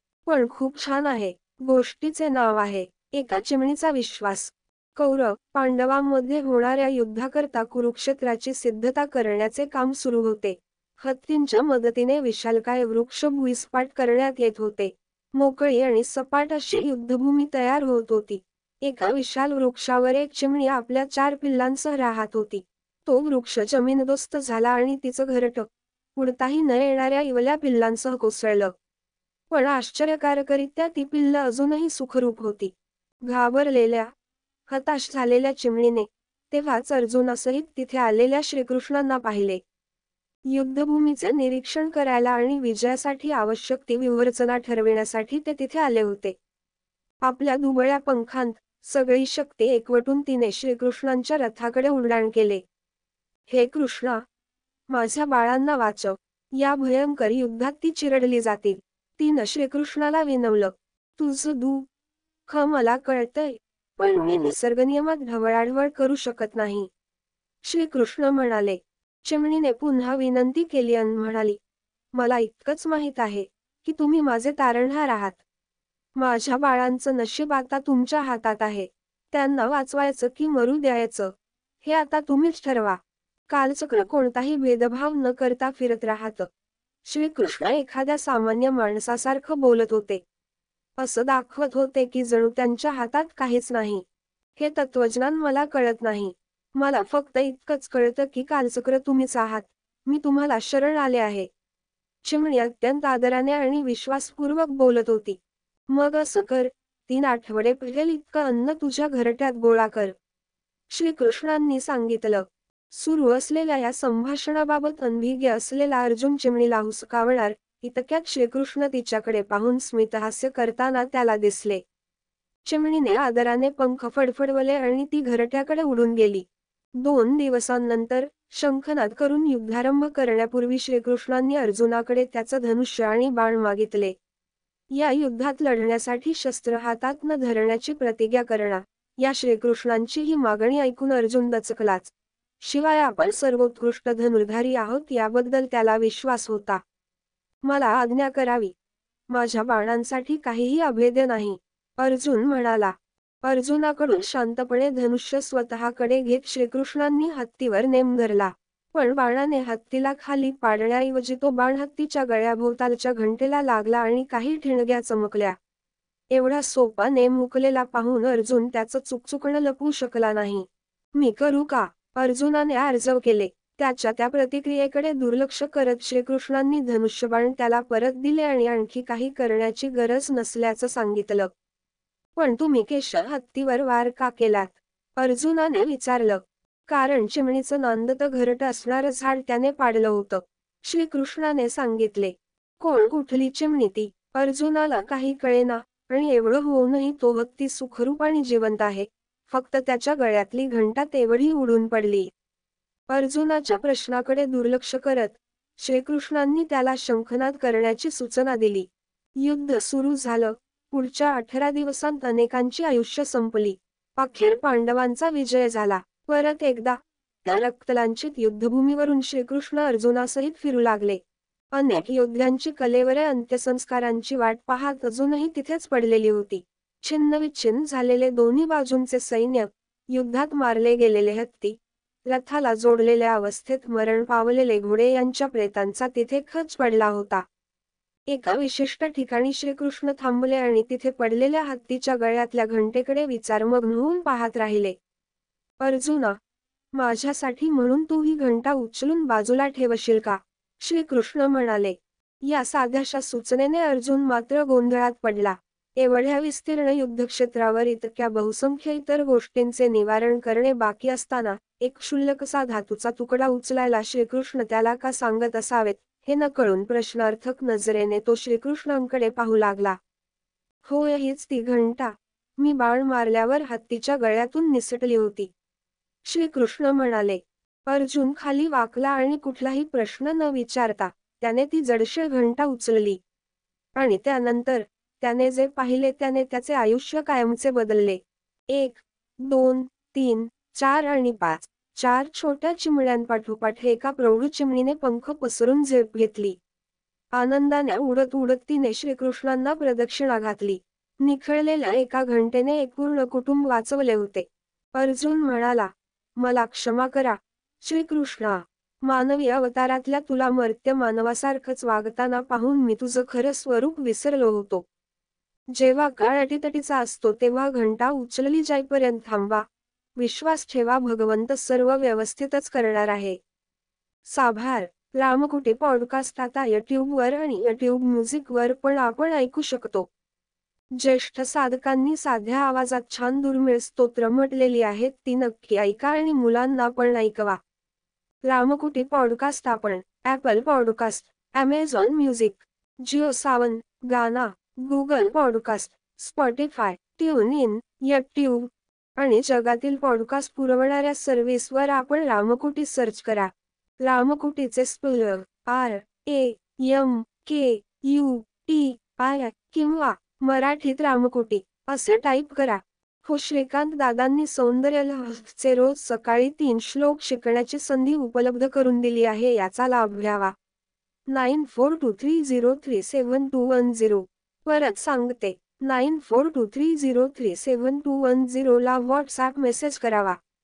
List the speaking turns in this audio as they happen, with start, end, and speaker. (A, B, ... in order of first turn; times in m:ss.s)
0:00.2-0:28.7 A
0:29.5-0:32.7 A
0:33.2-0:34.1 A
0:34.7-0:39.6 A
0:40.5-0:46.4 A
0:47.2-0:52.6 A
0:53.5-0:54.2 A
0:54.9-1:01.9 A
1:02.5-1:06.9 A
1:07.6-1:11.6 A
1:12.1-1:15.4 A
1:16.2-1:26.5 A
1:27.0-1:30.2 A
1:31.0-1:34.0 A
1:34.6-1:41.5 A
1:42.2-1:50.1 A
1:50.9-2:01.8 A
2:02.6-2:06.4 A
2:07.0-2:14.1 A
2:14.9-2:26.8 A
2:27.6-2:28.7 A
2:29.3-2:45.6 A
2:46.3-3:01.5 A
3:02.4-3:22.3 A
3:23.1-3:28.9 A
3:29.4-3:41.2 A
3:41.7-3:57.4 A
3:58.3-4:04.9 A
4:05.8-4:06.4 A
4:06.9-4:30.0 A
4:30.8-4:35.5 A
4:36.2-4:43.2 A
4:44.0-4:56.6 A
4:57.3-5:14.8 A
5:15.7-5:19.6 A
5:20.2-5:23.4 A
5:24.3-5:30.1 A
5:31.0-5:37.6 A
5:38.4-6:10.5 A
6:11.3-6:20.4 A